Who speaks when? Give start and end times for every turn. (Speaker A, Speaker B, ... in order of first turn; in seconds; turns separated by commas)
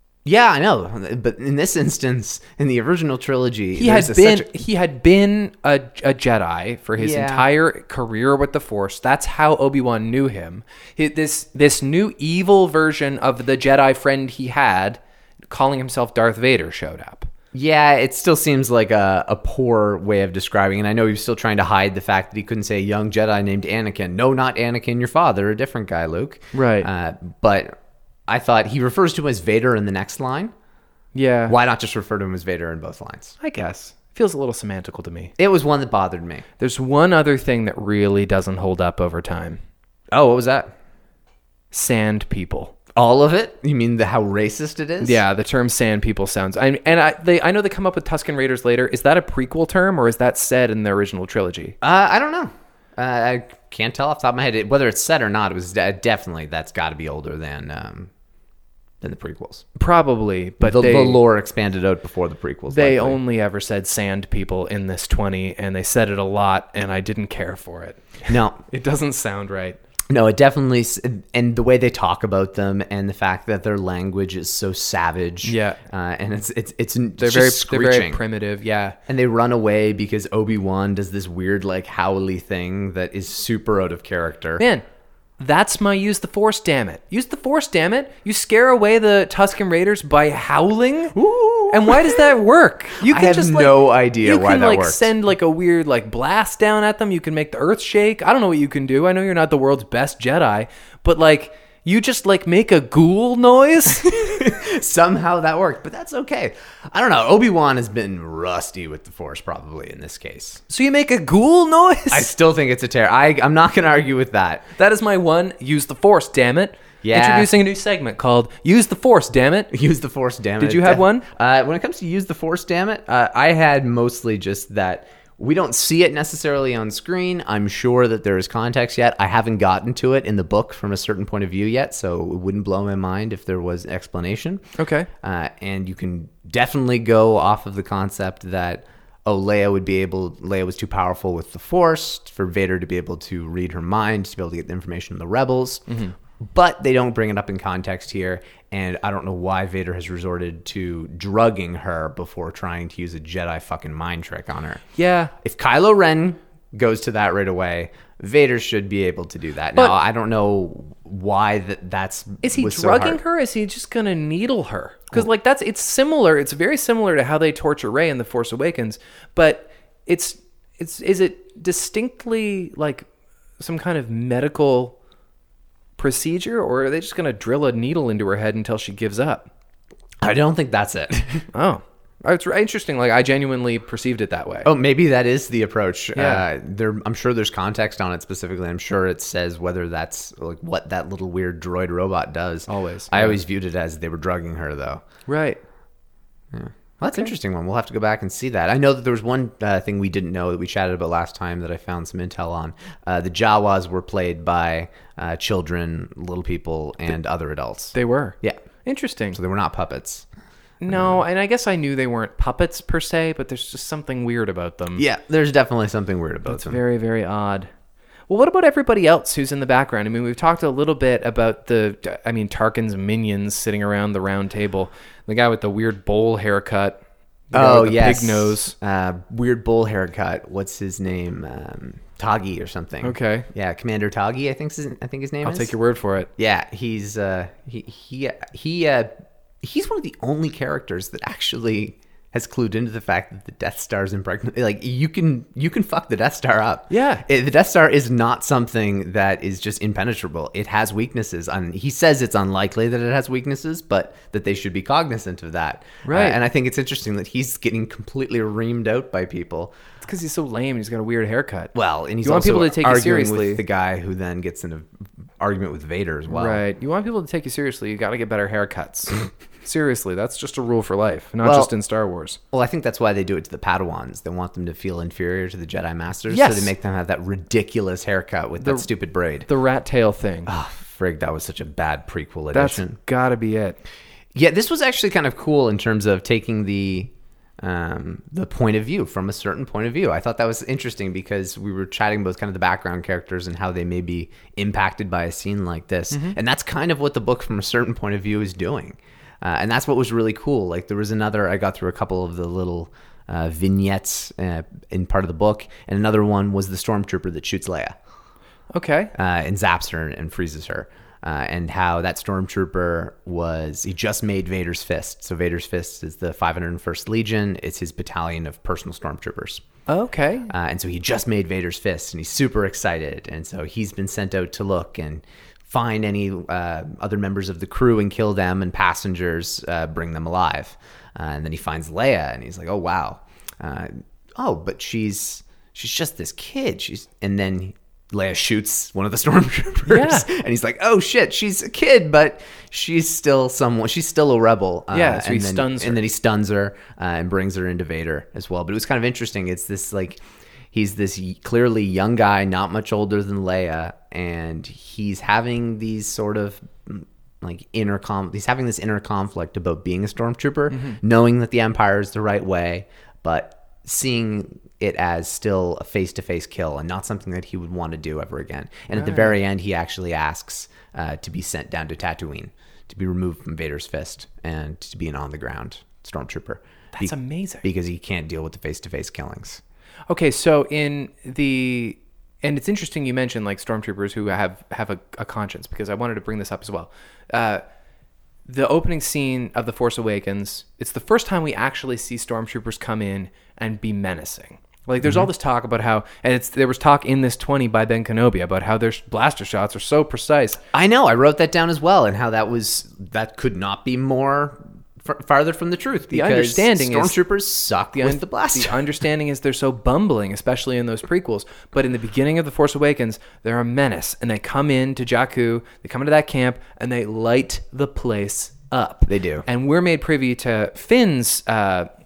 Speaker A: 0.2-4.6, Speaker B: 3.7-17.3, Speaker A: 7.0-7.5, Speaker A: 17.5-30.5, Speaker B: 26.5-26.9, Speaker B: 31.1-31.6, Speaker A: 31.5-33.4, Speaker B: 33.4-35.3, Speaker A: 35.4-36.4, Speaker B: 36.6-39.6, Speaker A: 40.1-40.7, Speaker B: 41.7-42.7, Speaker A: 43.0-45.2, Speaker B: 45.0-51.8, Speaker A: 51.8-58.1, Speaker A: 59.0-59.6, Speaker B: 59.8-61.2, Speaker A: 60.6-63.2, Speaker B: 62.7-69.8, Speaker A: 68.3-68.6, Speaker A: 70.1-78.2, Speaker B: 75.4-75.8, Speaker B: 77.2-79.0, Speaker A: 79.1-84.6, Speaker B: 84.6-84.8, Speaker B: 85.4-91.2, Speaker A: 91.1-92.2, Speaker B: 91.7-104.4, Speaker A: 93.0-95.1, Speaker A: 104.1-110.6, Speaker B: 110.7-112.3, Speaker A: 112.1-114.7, Speaker B: 114.8-119.7, Speaker A: 117.0-117.5, Speaker A: 119.7-134.6, Speaker B: 120.6-121.3, Speaker B: 134.8-135.1, Speaker A: 135.2-145.8, Speaker B: 145.9-146.2, Speaker A: 146.4-154.8, Speaker B: 154.9-155.3, Speaker A: 155.4-163.2, Speaker B: 162.4-173.1, Speaker B: 173.6-174.9, Speaker B: 176.0-179.5, Speaker A: 180.2-181.4, Speaker B: 181.5-184.7, Speaker A: 184.6-195.0, Speaker B: 186.1-186.4, Speaker B: 192.7-193.4, Speaker B: 195.3-195.6, Speaker A: 196.5-208.6, Speaker B: 197.1-197.3, Speaker B: 207.9-209.4, Speaker A: 209.3-210.2, Speaker B: 210.8-215.0, Speaker A: 210.9-211.2, Speaker A: 214.9-216.8, Speaker B: 216.4-217.7, Speaker B: 218.3-228.7, Speaker A: 227.5-235.7, Speaker B: 233.0-233.5, Speaker B: 235.4-236.3, Speaker A: 236.4-259.7, Speaker B: 246.9-247.2, Speaker B: 256.0-256.4, Speaker B: 260.0-263.6, Speaker A: 261.7-264.9, Speaker A: 265.4-266.6, Speaker B: 266.3-272.4, Speaker A: 271.4-271.7, Speaker A: 272.5-279.5, Speaker B: 276.3-276.7, Speaker B: 278.6-278.9, Speaker B: 279.4-280.5, Speaker A: 280.4-283.0, Speaker B: 282.5-283.8, Speaker A: 284.3-307.9, Speaker B: 296.1-296.4, Speaker B: 308.7-309.1, Speaker A: 309.1-319.6, Speaker B: 319.9-320.5, Speaker A: 320.5-350.2, Speaker B: 339.9-340.3, Speaker B: 344.9-346.1, Speaker A: 350.7-379.6, Speaker B: 360.7-361.0, Speaker B: 368.9-369.3, Speaker B: 376.9-377.6, Speaker B: 380.1-387.6, Speaker B: 388.4-400.6, Speaker A: 395.0-395.3, Speaker A: 400.7-408.8, Speaker B: 406.1-407.2, Speaker B: 408.0-421.9, Speaker A: 419.1-419.4